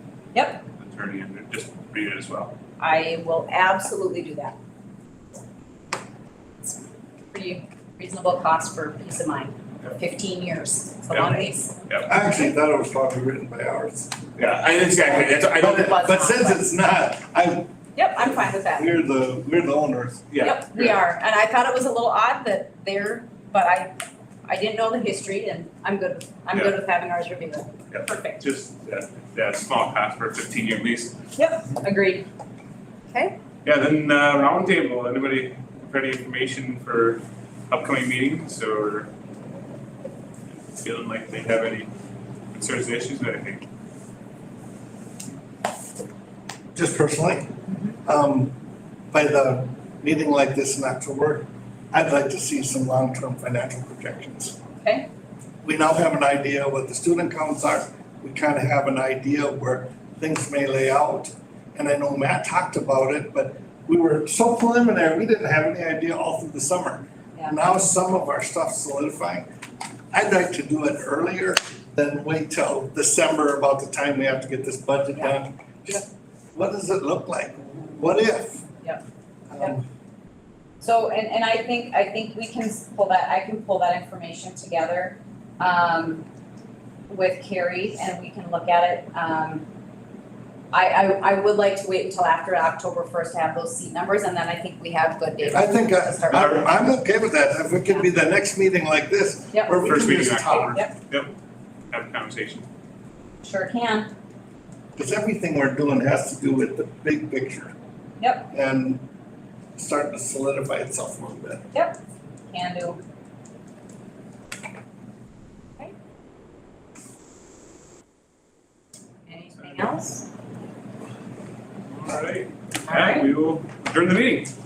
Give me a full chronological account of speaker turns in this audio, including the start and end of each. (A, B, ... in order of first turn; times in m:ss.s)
0:00.3-0:00.6 A
0:00.8-0:02.5 B
0:02.8-0:04.6 A
0:06.6-0:11.8 A
0:11.1-0:12.1 B
0:12.0-0:14.2 C
0:14.4-0:15.9 B
0:15.5-0:17.7 C
0:15.6-0:16.6 A
0:17.9-0:18.9 A
0:18.7-0:20.3 C
0:20.3-0:21.0 B
0:20.4-0:23.9 A
0:24.4-0:28.4 A
0:27.9-0:31.2 B
0:31.4-0:32.3 A
0:33.1-0:33.3 A
0:33.6-0:39.1 B
0:40.7-0:41.9 B
0:42.5-0:43.6 B
0:46.7-0:47.5 C
0:47.7-0:47.9 A
0:48.0-0:48.6 C
0:49.1-0:54.6 C
0:54.8-0:55.1 A
0:55.6-1:09.5 C
1:07.3-1:07.6 A
1:10.1-1:18.6 C
1:19.5-1:19.9 C
1:20.8-1:26.2 A
1:27.1-1:29.6 A
1:30.7-1:36.7 A
1:35.5-1:40.8 C
1:36.3-1:36.6 B
1:39.5-1:39.8 A
1:39.8-1:41.3 B
1:41.9-1:42.7 B
1:43.4-1:44.1 A
1:45.0-1:47.7 C
1:48.2-1:48.5 A
1:48.5-1:49.0 C
1:49.8-1:51.7 C
1:51.7-1:52.0 A
1:52.5-1:53.0 A
1:59.3-2:00.3 A
2:01.9-2:04.5 B
2:02.9-2:03.3 A